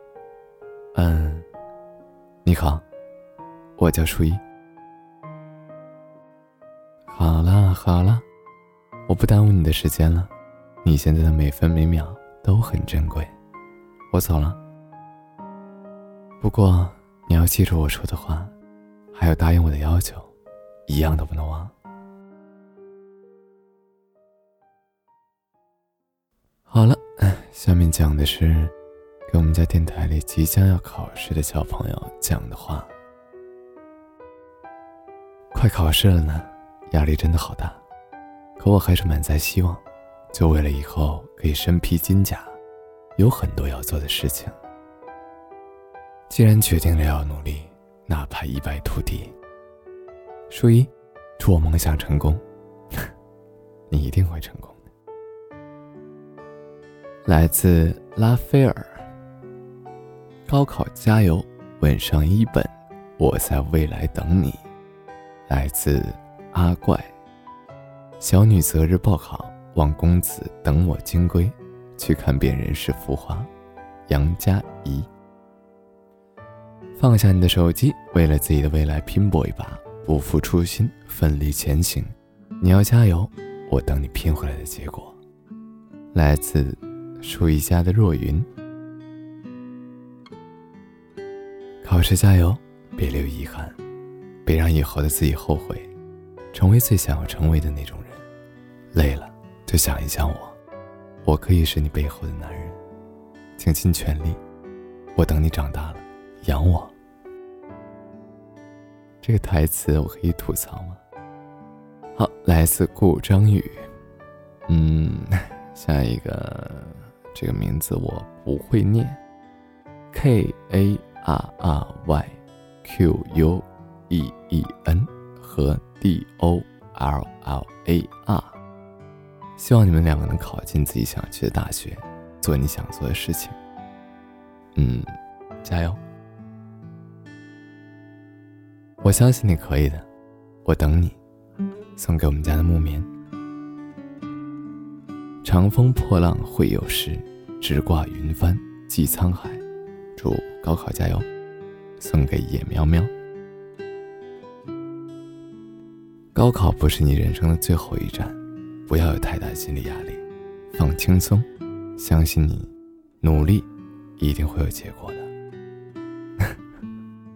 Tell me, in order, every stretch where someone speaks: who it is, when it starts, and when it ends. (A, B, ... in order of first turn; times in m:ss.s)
0:00.9-0:01.4 A
0:02.4-0:02.8 A
0:03.8-0:04.4 A
0:07.1-0:08.2 A
0:09.1-0:10.3 A
0:10.8-0:13.3 A
0:14.1-0:14.6 A
0:16.4-0:18.5 A
0:19.1-0:20.3 A
0:20.9-0:21.7 A
0:26.7-0:28.7 A
0:29.3-0:32.9 A
0:35.5-0:37.8 A
0:38.6-0:42.5 A
0:43.2-0:44.6 A
0:46.3-0:49.3 A
0:50.5-0:52.4 A
0:53.9-0:54.9 A
0:57.2-0:59.1 A
1:00.4-1:04.6 A
1:05.5-1:07.1 A
1:08.2-1:13.5 A
1:14.1-1:15.1 A
1:17.0-1:25.2 A
1:26.1-1:28.5 A
1:31.8-1:33.8 A
1:34.4-1:35.9 A
1:36.5-1:38.2 A
1:38.9-1:40.6 A
1:41.2-1:42.8 A
1:43.6-1:44.4 A
1:45.2-1:46.9 A
1:49.2-1:51.0 A
1:52.2-1:53.9 A
1:54.7-1:59.2 A
2:00.1-2:08.6 A
2:09.6-2:13.6 A
2:14.8-2:15.1 A
2:15.6-2:16.0 A
2:19.0-2:20.1 A
2:20.6-2:21.2 A
2:22.0-2:23.1 A
2:25.4-2:29.6 A
2:30.2-2:31.2 A
2:32.0-2:33.1 A
2:36.3-2:41.4 A
2:42.0-2:45.3 A